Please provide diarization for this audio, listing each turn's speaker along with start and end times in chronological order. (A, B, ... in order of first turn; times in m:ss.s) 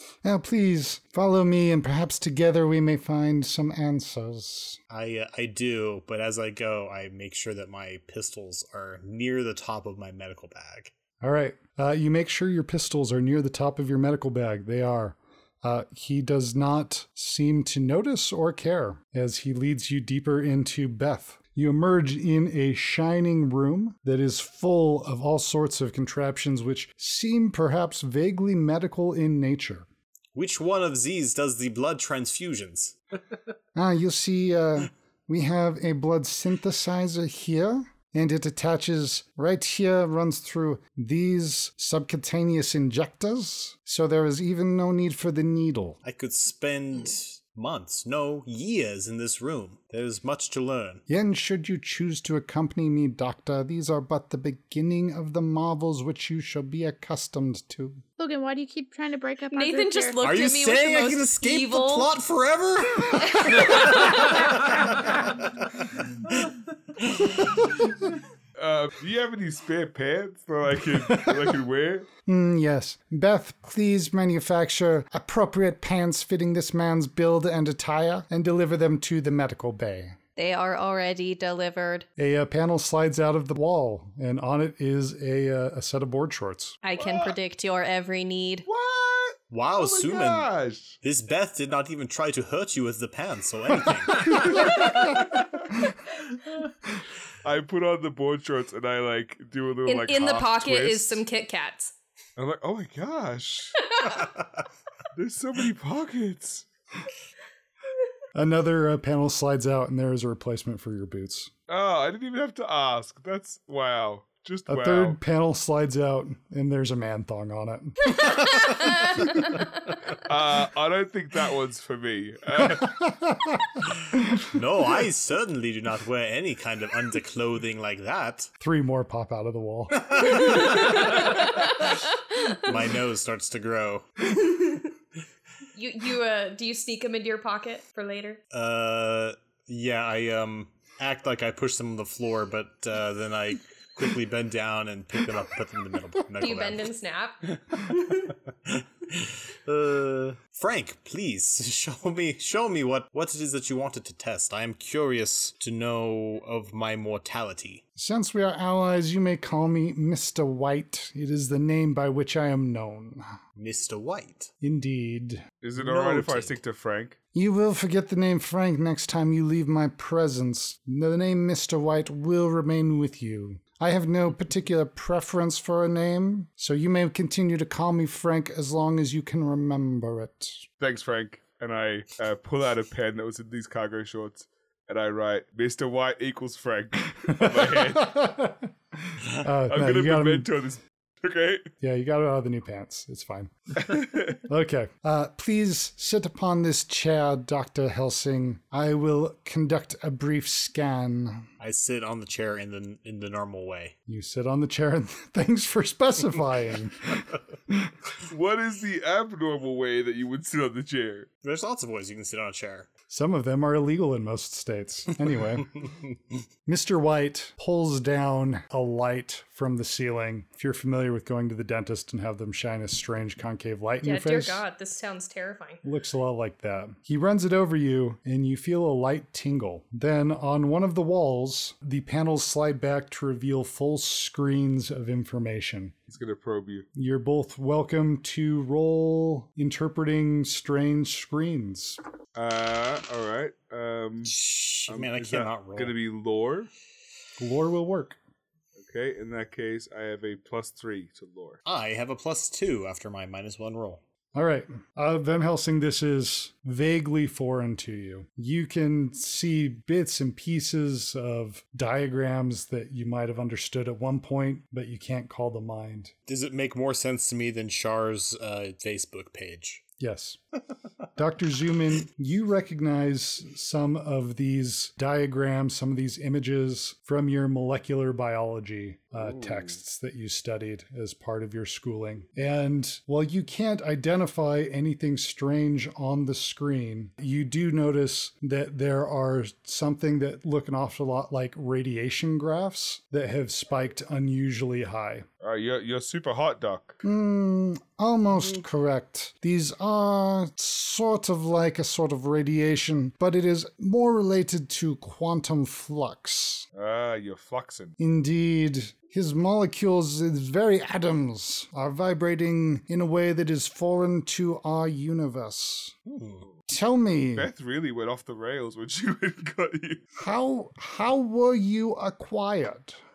0:00.2-0:04.8 A
0:04.9-0:10.9 B
0:11.2-0:29.9 A
0:30.3-0:33.0 B
0:33.7-0:46.0 A
0:46.0-0:51.0 B
0:51.1-0:58.0 A
0:58.2-1:00.2 C
0:59.5-1:02.1 D
1:00.2-1:05.6 B
1:03.2-1:04.5 D
1:06.3-1:07.4 B
1:08.6-1:12.1 E
1:12.2-1:20.2 A
1:20.4-1:22.0 D
1:22.2-1:26.8 A
1:26.8-1:28.6 D
1:27.0-1:27.3 E
1:28.6-1:31.0 E
1:29.5-1:35.2 B
1:34.5-1:35.4 E
1:37.4-1:41.2 E
1:39.8-1:41.9 D
1:42.4-1:44.0 E
1:45.1-1:46.6 E
1:48.3-1:51.5 A
1:51.7-1:55.2 E
1:54.7-1:58.7 A
1:58.7-1:59.3 D
2:00.2-2:03.0 E
2:02.7-2:03.6 A
2:04.4-2:08.5 B
2:08.6-2:10.8 A
2:10.0-2:11.9 B
2:10.4-2:12.7 D
2:12.5-2:14.0 B
2:14.4-2:14.9 D
2:15.7-2:18.4 D
2:18.5-2:26.9 B
2:26.4-2:28.3 D
2:28.7-2:37.8 B
2:38.0-2:43.2 A
2:43.6-2:44.5 B
2:44.6-2:45.4 A
2:45.6-2:47.2 E
2:45.8-2:46.6 B
2:47.3-3:00.6 A
3:00.8-3:08.2 E
3:07.3-3:10.5 A
3:09.7-3:11.7 E
3:11.8-3:13.5 A
3:13.8-3:14.4 E
3:14.4-3:21.5 A
3:21.6-3:24.0 B
3:24.1-3:27.9 A
3:28.2-3:31.3 E
3:31.4-3:32.9 B
3:33.1-3:35.8 A
3:36.6-3:44.6 A
3:44.0-3:45.8 D
3:45.8-3:55.9 A
3:56.1-3:56.9 E
3:56.9-4:02.0 A
4:02.4-4:04.3 E
4:04.2-4:05.9 B
4:04.9-4:06.7 E
4:07.4-4:08.2 A
4:08.8-4:11.6 E
4:11.6-4:14.0 B
4:14.3-4:26.1 A
4:26.3-4:29.8 B
4:30.0-4:30.4 A
4:31.2-4:55.3 A
4:55.4-4:57.0 E
4:57.0-5:06.7 A
5:06.7-5:08.0 E
5:08.0-5:15.9 A
5:16.0-5:16.5 B
5:16.7-5:17.5 A
5:17.3-5:20.0 E
5:20.2-5:23.0 A